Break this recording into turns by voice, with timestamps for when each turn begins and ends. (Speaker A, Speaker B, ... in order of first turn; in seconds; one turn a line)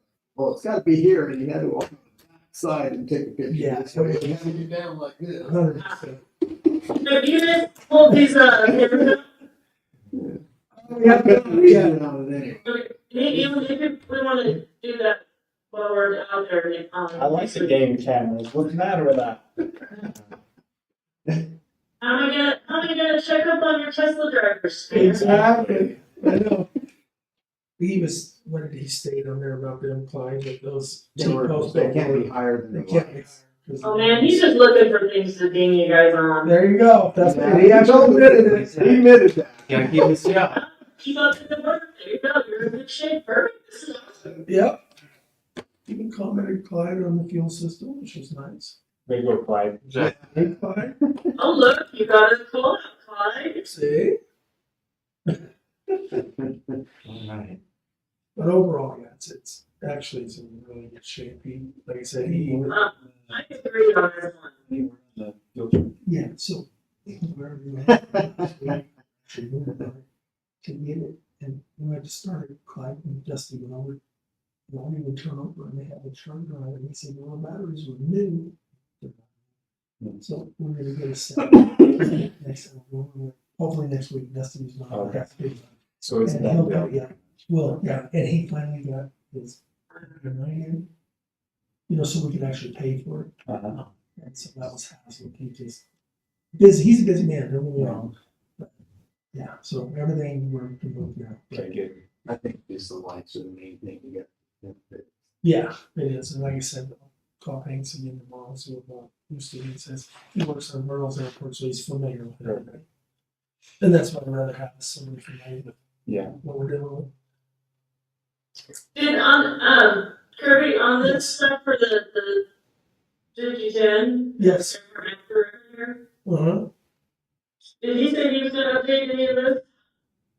Speaker A: 0.3-5.8
Speaker B: 3.5-4.5
Speaker B: 5.5-6.2
Speaker C: 7.0-9.3
Speaker A: 10.1-12.7
Speaker B: 10.7-12.0
Speaker C: 12.6-17.8
Speaker A: 13.3-13.7
Speaker D: 17.1-19.4
Speaker C: 22.0-25.4
Speaker B: 24.9-26.7
Speaker D: 25.1-25.6
Speaker A: 25.2-26.3
Speaker B: 27.8-34.5
Speaker A: 31.2-33.4
Speaker C: 33.8-36.6
Speaker B: 36.4-38.7
Speaker A: 37.2-40.2
Speaker E: 38.5-39.1
Speaker E: 39.6-40.6
Speaker C: 39.9-44.4
Speaker B: 44.5-44.8
Speaker B: 45.9-48.8
Speaker D: 49.1-49.8
Speaker E: 49.8-50.2
Speaker B: 50.0-51.0
Speaker A: 50.0-50.5
Speaker C: 51.4-53.6
Speaker B: 53.6-54.2
Speaker E: 57.0-57.6
Speaker B: 58.4-62.8
Speaker C: 62.7-64.5
Speaker D: 64.7-66.0
Speaker B: 66.0-70.0
Speaker B: 70.6-74.0
Speaker B: 74.7-79.3
Speaker B: 80.2-90.9
Speaker D: 84.9-85.3
Speaker D: 86.0-87.1
Speaker B: 91.9-95.8
Speaker D: 93.5-93.8
Speaker B: 96.6-98.7
Speaker D: 97.8-98.1
Speaker B: 99.3-101.8
Speaker D: 101.5-102.0
Speaker A: 102.3-105.1
Speaker B: 105.4-112.8
Speaker B: 113.8-115.8
Speaker D: 116.1-116.3
Speaker B: 116.4-117.1
Speaker C: 118.9-122.5
Speaker B: 121.0-121.3
Speaker C: 123.3-126.0
Speaker B: 124.4-124.8
Speaker B: 126.2-126.7
Speaker C: 127.8-129.7